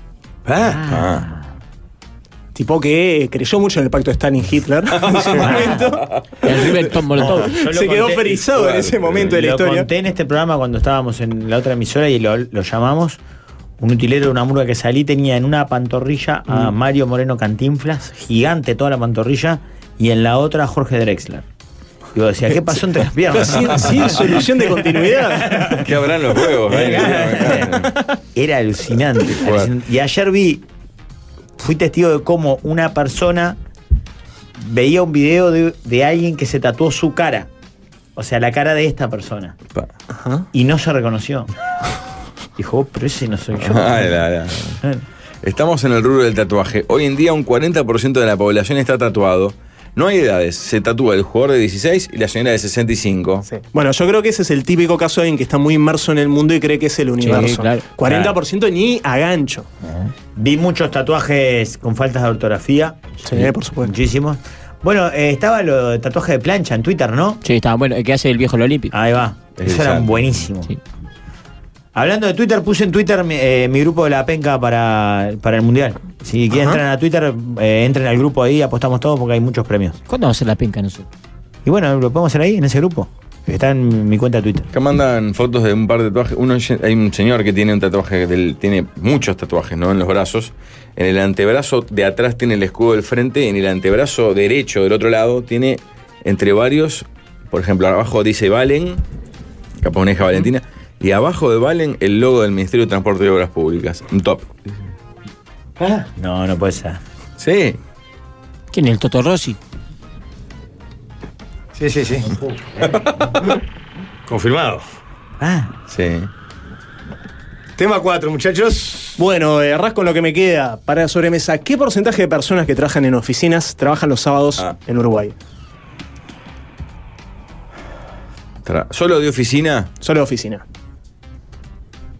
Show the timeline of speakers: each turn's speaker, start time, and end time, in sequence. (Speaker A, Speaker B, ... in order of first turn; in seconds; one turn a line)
Speaker A: 0.7-1.3
Speaker B: 0.7-1.4
Speaker C: 2.5-6.1
Speaker A: 5.0-6.5
Speaker B: 5.4-5.7
Speaker D: 6.4-7.5
Speaker B: 7.2-8.5
Speaker C: 7.4-9.9
Speaker A: 8.6-9.3
Speaker B: 9.2-13.2
Speaker B: 13.8-21.4
Speaker B: 22.1-24.8
Speaker C: 23.3-25.8
Speaker B: 25.4-25.9
Speaker A: 25.8-27.9
Speaker B: 26.6-30.6
Speaker A: 29.4-29.7
Speaker B: 31.6-33.6
Speaker B: 34.6-37.5
Speaker B: 38.2-39.5
Speaker C: 40.1-40.5
Speaker B: 40.5-41.5
Speaker B: 42.6-44.2
Speaker A: 43.6-44.8
Speaker A: 45.4-53.5
Speaker C: 53.5-59.7
Speaker D: 57.2-57.9
Speaker B: 60.4-67.4
Speaker C: 63.2-63.9
Speaker D: 67.4-68.9
Speaker B: 68.9-70.7
Speaker A: 69.6-70.4
Speaker B: 72.0-80.0
Speaker C: 76.5-76.8
Speaker D: 80.1-81.1
Speaker B: 81.7-84.7
Speaker A: 84.7-99.0
Speaker A: 99.8-104.8
Speaker B: 105.8-107.0
Speaker A: 107.4-107.8
Speaker D: 108.7-109.6
Speaker E: 111.8-112.5
Speaker E: 114.3-114.8
Speaker B: 115.4-115.7
Speaker A: 115.9-116.3
Speaker E: 117.8-119.2
Speaker C: 119.2-125.3
Speaker A: 128.6-129.9
Speaker C: 130.0-130.6